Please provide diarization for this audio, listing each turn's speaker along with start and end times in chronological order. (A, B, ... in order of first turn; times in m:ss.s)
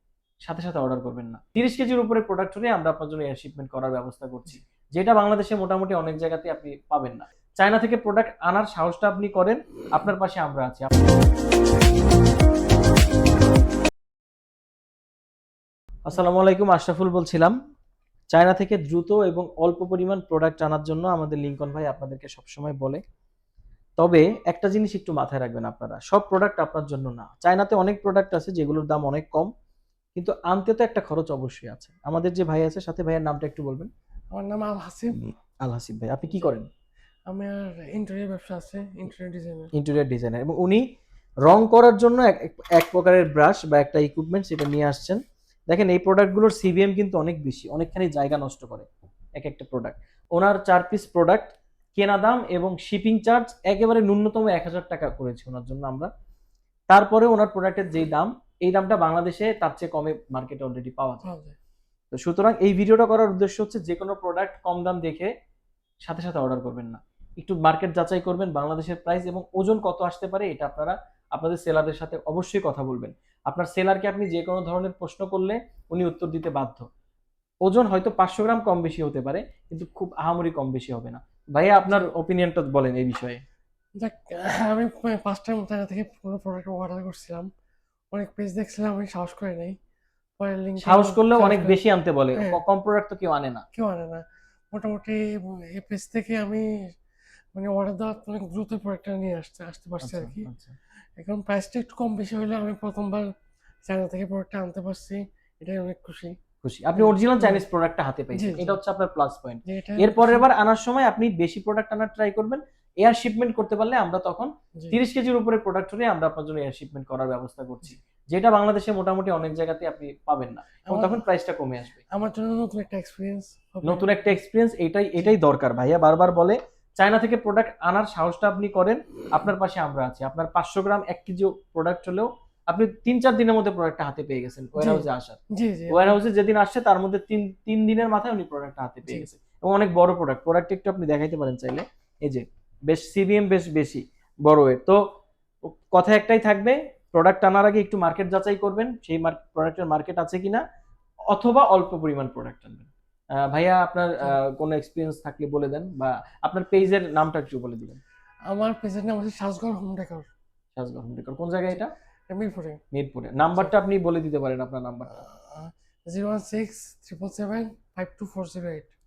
0:00.4-0:11.0 A
0:16.1-0:17.5 A
0:18.3-0:23.0 A
0:24.0-0:29.5 A
0:30.2-0:33.9 A
0:34.3-0:35.2 B
0:35.2-0:36.7 A
0:37.3-0:39.7 B
0:39.8-0:40.8 A
0:41.5-0:56.1 A
0:56.9-1:01.3 A
1:01.2-1:01.6 B
1:02.1-1:05.3 A
1:06.0-1:16.9 A
1:17.6-1:23.4 A
1:24.0-1:27.5 B
1:28.1-1:29.8 B
1:30.4-1:31.8 B
1:30.8-1:33.6 A
1:33.7-1:37.0 B
1:37.5-1:40.5 B
1:40.0-1:40.8 A
1:41.2-1:43.3 B
1:43.8-1:46.4 B
1:46.6-2:02.0 A
1:47.0-1:47.6 B
1:48.3-1:48.8 B
1:49.7-1:50.5 B
2:00.9-2:01.2 B
2:02.1-2:04.3 B
2:03.8-2:15.4 A
2:14.8-2:16.2 B
2:15.9-2:25.0 A
2:25.6-2:30.6 A
2:31.3-2:32.9 A
2:33.4-2:38.0 A
2:38.5-2:40.3 B
2:40.8-2:41.9 A
2:42.3-2:42.8 B
2:42.9-2:45.1 A
2:45.1-2:48.9 B